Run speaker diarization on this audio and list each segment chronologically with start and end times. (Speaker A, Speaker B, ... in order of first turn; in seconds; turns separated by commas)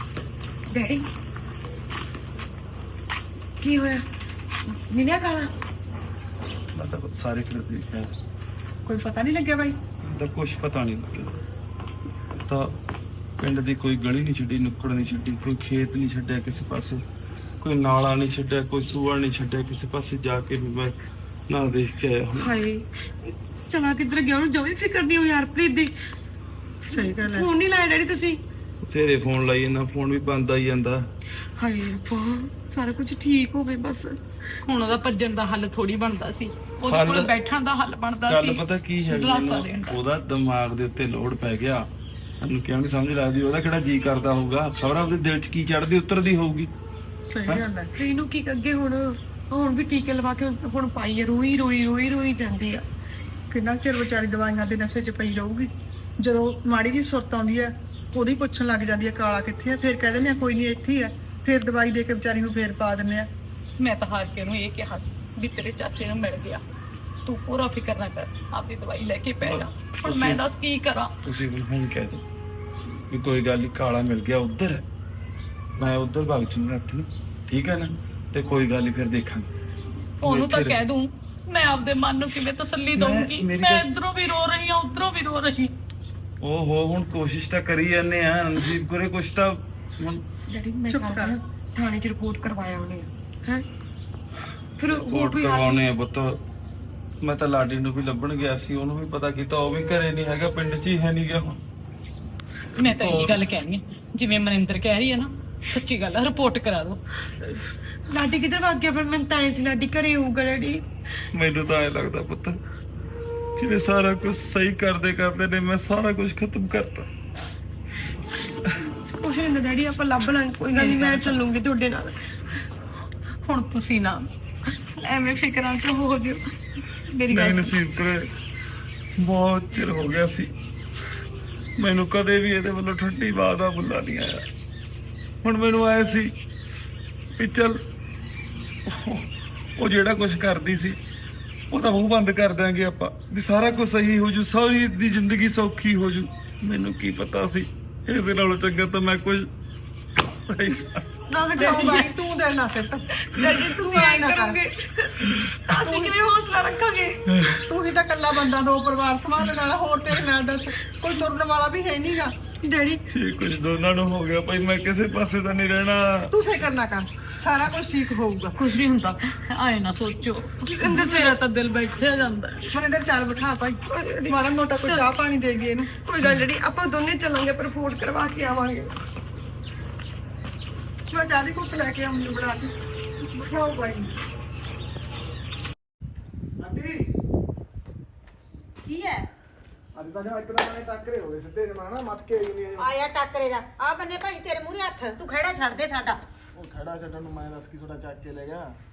Speaker A: 0.7-1.0, Speaker A: 3.6-4.0, Speaker A: 4.7-5.5, Speaker B: 6.8-8.1, Speaker C: 8.8-9.8, Speaker B: 10.0-11.4, Speaker B: 12.3-12.8, Speaker B: 13.4-17.0, Speaker B: 17.6-22.5, Speaker A: 22.4-25.9, Speaker A: 26.9-28.4, Speaker C: 26.9-27.5, Speaker B: 28.9-31.1, Speaker A: 31.6-34.2, Speaker D: 34.7-40.0, Speaker B: 36.9-37.3, Speaker B: 38.3-41.9, Speaker B: 42.4-46.7, Speaker C: 47.2-47.9, Speaker A: 48.0-52.8, Speaker C: 53.5-63.3, Speaker D: 63.8-66.6, Speaker D: 67.2-71.2, Speaker B: 69.4-70.4, Speaker B: 71.2-72.2, Speaker B: 73.1-74.9, Speaker B: 75.8-79.5, Speaker D: 80.2-85.8, Speaker B: 80.2-80.8, Speaker B: 83.0-83.9, Speaker B: 86.4-90.2, Speaker A: 90.5-93.7, Speaker C: 90.9-91.3, Speaker A: 94.8-95.9, Speaker B: 94.8-96.4, Speaker B: 97.2-101.6, Speaker D: 102.8-107.0, Speaker B: 102.8-103.4, Speaker A: 108.1-110.8, Speaker B: 111.3-112.6, Speaker B: 113.6-117.1, Speaker A: 119.1-122.3, Speaker D: 120.6-121.4, Speaker A: 123.4-124.3, Speaker A: 124.9-126.4, Speaker A: 127.1-127.7, Speaker B: 127.3-128.3, Speaker B: 129.2-130.5, Speaker B: 131.8-134.4, Speaker B: 135.4-136.3, Speaker B: 137.3-137.8, Speaker B: 138.8-141.0, Speaker B: 141.7-149.5, Speaker B: 150.4-151.1, Speaker A: 151.3-152.1, Speaker C: 151.6-154.6, Speaker A: 153.2-157.2, Speaker B: 155.3-155.8, Speaker B: 157.3-157.6, Speaker C: 157.7-162.3, Speaker A: 162.6-163.0, Speaker B: 163.1-166.3, Speaker C: 166.3-168.6, Speaker D: 168.6-172.7, Speaker A: 170.7-171.3, Speaker C: 172.7-175.9, Speaker A: 173.9-175.1, Speaker A: 176.0-178.9, Speaker C: 181.1-184.2, Speaker E: 186.6-187.1, Speaker F: 188.8-189.3, Speaker E: 189.9-192.9, Speaker F: 192.8-196.2, Speaker E: 196.5-198.8